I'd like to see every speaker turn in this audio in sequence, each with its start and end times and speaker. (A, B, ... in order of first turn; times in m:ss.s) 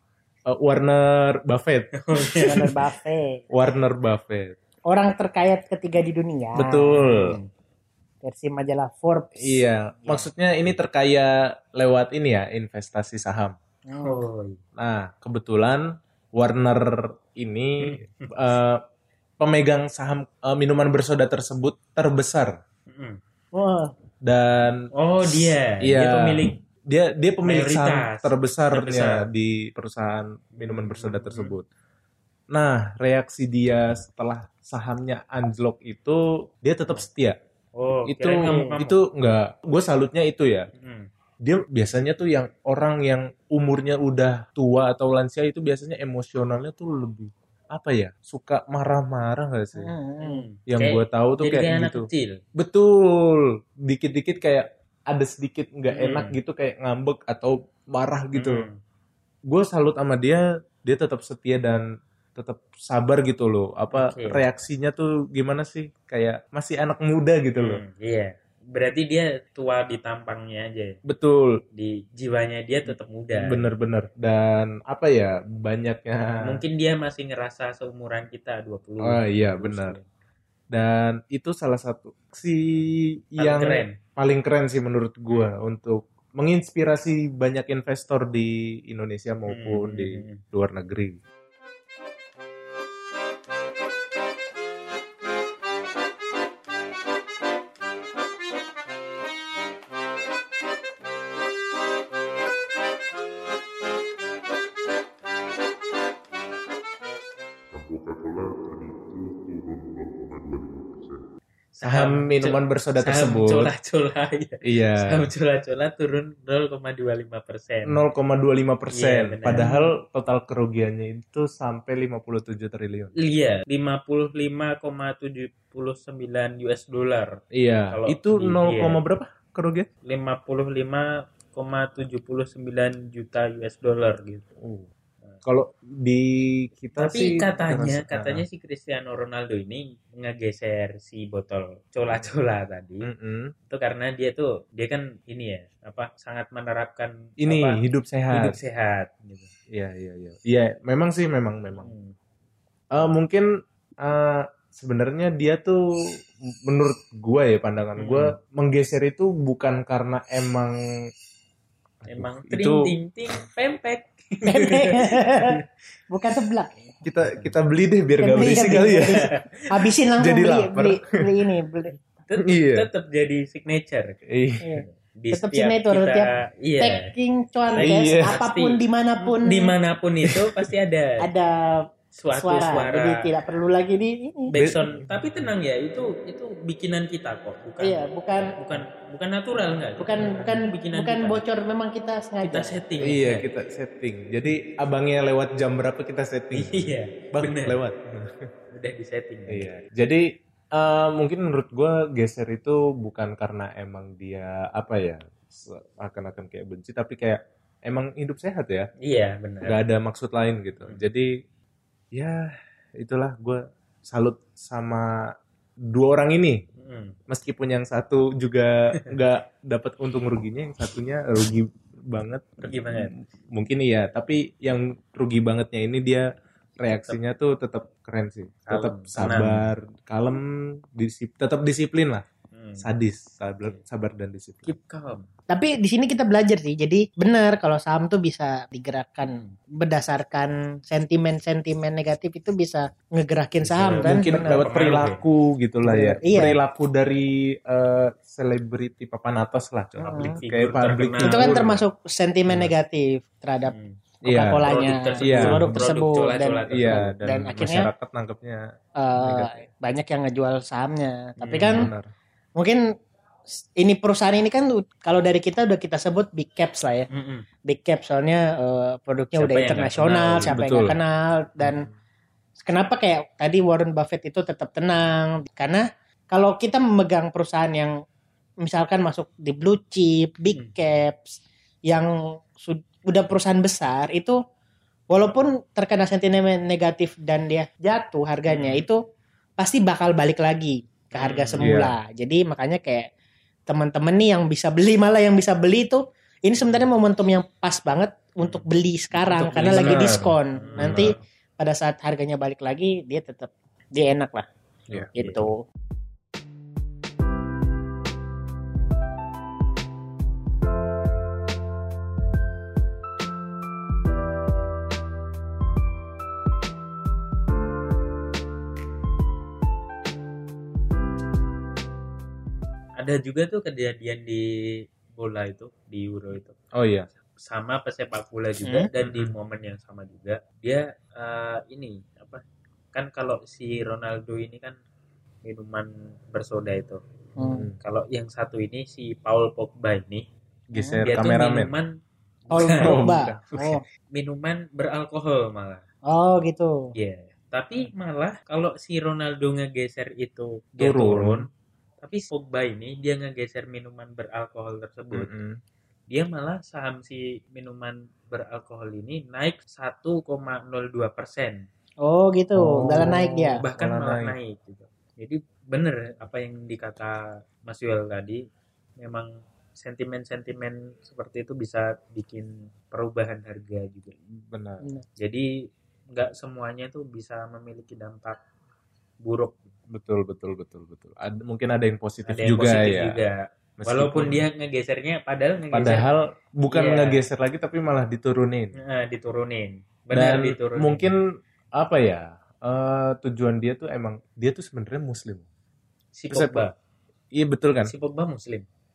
0:00.5-0:02.7 A
0:02.0-0:02.6 B
0:02.4-0:03.4 C
0:03.5-0:04.6 A
0:04.9-0:06.9 C
0:06.5-0:07.4 A
0:07.0-0:07.4 B
0:08.2-0:09.6 C
0:09.4-0:13.5 A
0:13.9-0:14.2 C
0:14.0-0:14.6 B
0:14.8-0:15.8 A
0:16.3-0:18.8 A
0:17.8-0:18.3 B
0:19.4-0:22.6 A
0:22.9-0:23.2 B
0:23.5-0:23.9 C
0:24.2-0:31.6 A
0:25.0-0:26.5 B
0:27.4-0:29.2 B
0:30.6-0:31.6 B
0:32.5-0:37.4 A
0:37.8-0:39.0 B
0:38.1-0:40.7 A
0:40.7-0:41.1 B
0:41.4-0:49.9 A
0:49.8-0:50.4 C
0:50.2-0:52.4 B
0:50.7-0:52.1 A
0:52.6-0:58.6 A
0:55.9-0:56.4 B
0:58.4-0:58.8 B
0:59.5-1:01.8 A
1:02.3-1:07.8 A
1:03.9-1:04.4 B
1:07.6-1:11.0 B
1:11.1-1:11.6 A
1:11.7-1:13.7 B
1:12.9-1:16.6 A
1:16.4-1:20.0 B
1:19.0-1:20.0 A
1:20.7-1:31.2 A
1:23.4-1:24.0 B
1:29.5-1:30.4 B
1:47.7-1:51.2 A
1:51.7-1:58.0 B
1:51.8-1:53.7 A
1:54.6-1:55.3 A
1:57.8-2:03.1 A
1:58.9-1:59.9 B
2:03.2-2:07.4 B
2:07.5-2:09.9 A
2:07.9-2:09.0 B
2:10.0-2:14.4 B
2:14.6-2:14.9 A
2:15.4-2:18.4 A
2:16.9-2:23.0 B
2:23.0-2:23.5 A
2:23.7-2:29.5 B
2:27.4-2:28.6 A
2:29.7-2:31.9 A
2:31.7-2:32.1 B
2:32.9-2:33.4 A
2:34.0-2:35.8 A
2:36.7-2:40.7 A
2:38.0-2:38.3 B
2:42.0-2:42.9 A
2:42.1-2:45.6 B
2:44.5-2:45.5 C
2:46.1-2:46.8 C
2:47.0-2:49.2 A
2:47.3-2:47.5 B
2:48.2-2:51.9 C
2:48.4-2:49.4 B
2:50.2-2:51.0 A
2:52.2-2:54.2 B
2:52.4-2:52.9 A
2:54.3-2:54.7 A
2:54.6-2:59.7 C
2:54.8-2:57.1 B
2:57.7-3:01.2 B
2:57.8-2:58.4 A
3:01.2-3:01.8 C
3:02.1-3:03.1 B
3:02.3-3:04.5 C
3:04.5-3:11.4 B
3:04.6-3:05.5 A
3:07.8-3:08.5 C
3:10.0-3:12.8 C
3:12.4-3:13.5 B
3:13.0-3:18.5 A
3:16.5-3:17.8 B
3:18.7-3:19.7 B
3:19.5-3:20.2 A
3:20.7-3:28.9 A
3:29.0-3:29.8 B
3:29.6-3:31.3 A
3:32.1-3:32.4 A
3:33.0-3:35.0 A
3:35.9-3:36.6 A
3:36.8-3:37.2 B
3:37.3-3:46.2 A
3:42.6-3:43.1 B
3:46.8-3:50.4 A
3:46.9-3:47.2 B
3:48.7-3:49.7 B
3:51.0-3:52.2 A
3:52.5-3:52.8 B
3:52.8-3:54.7 A
3:54.6-3:55.2 B
3:55.5-4:04.8 C
4:03.6-4:05.2 B
4:03.9-4:11.8 A
4:05.8-4:06.6 C
4:10.1-4:10.4 C
4:10.1-4:11.6 B
4:11.2-4:13.7 C
4:13.7-4:14.0 B
4:14.2-4:17.9 C
4:14.2-4:14.7 A
4:14.6-4:17.1 B
4:15.2-4:15.9 A
4:16.7-4:18.6 A
4:19.0-4:21.9 C
4:19.2-4:19.5 A
4:21.4-4:21.9 B
4:21.7-4:22.1 A
4:23.8-4:27.1 C
4:27.1-4:27.4 B
4:27.7-4:31.8 C
4:29.4-4:30.6 B
4:30.4-4:31.0 A
4:31.6-4:31.9 A
4:32.6-4:37.9 C
4:38.6-4:44.4 C
4:45.1-4:49.0 C
4:48.5-4:48.8 B
4:49.6-4:53.0 C
4:51.1-4:51.7 B
4:51.6-4:52.0 A
4:53.7-5:04.4 C
4:59.2-5:01.2 B
4:59.3-5:01.1 A
5:04.9-5:05.4 B
5:05.1-5:05.5 C
5:23.0-5:24.4 B
5:25.1-5:26.5 B
5:26.7-5:27.0 A
5:27.4-5:32.4 B
5:29.0-5:29.3 A
5:32.9-5:34.8 B
5:35.4-5:37.0 B
5:37.4-5:37.8 A
5:37.4-5:37.7 C
5:37.8-5:40.2 B
5:40.7-5:41.7 A
5:40.7-5:41.1 C
5:41.0-5:41.9 B
5:42.5-5:45.8 B
5:42.5-5:43.8 C
5:42.8-5:43.5 A
5:46.1-5:46.7 C
5:46.9-5:51.4 B
5:50.8-5:51.4 A
5:52.0-5:55.3 B
5:55.1-5:55.6 A
5:56.1-6:01.6 B
6:02.0-6:03.6 C
6:02.6-6:04.4 A
6:03.6-6:08.4 B
6:09.0-6:09.3 B
6:09.8-6:14.1 B
6:14.4-6:14.8 A
6:15.2-6:15.4 B
6:16.1-6:18.4 B
6:19.2-6:19.7 B
6:19.9-6:23.2 A
6:22.3-6:26.1 B
6:23.8-6:24.4 A
6:25.7-6:28.7 A
6:26.7-6:27.2 B
6:28.8-6:31.1 B
6:30.1-6:31.2 A
6:31.8-6:35.4 A
6:36.2-6:36.7 B
6:36.3-6:36.6 A
6:37.3-6:37.9 A
6:37.8-6:38.6 B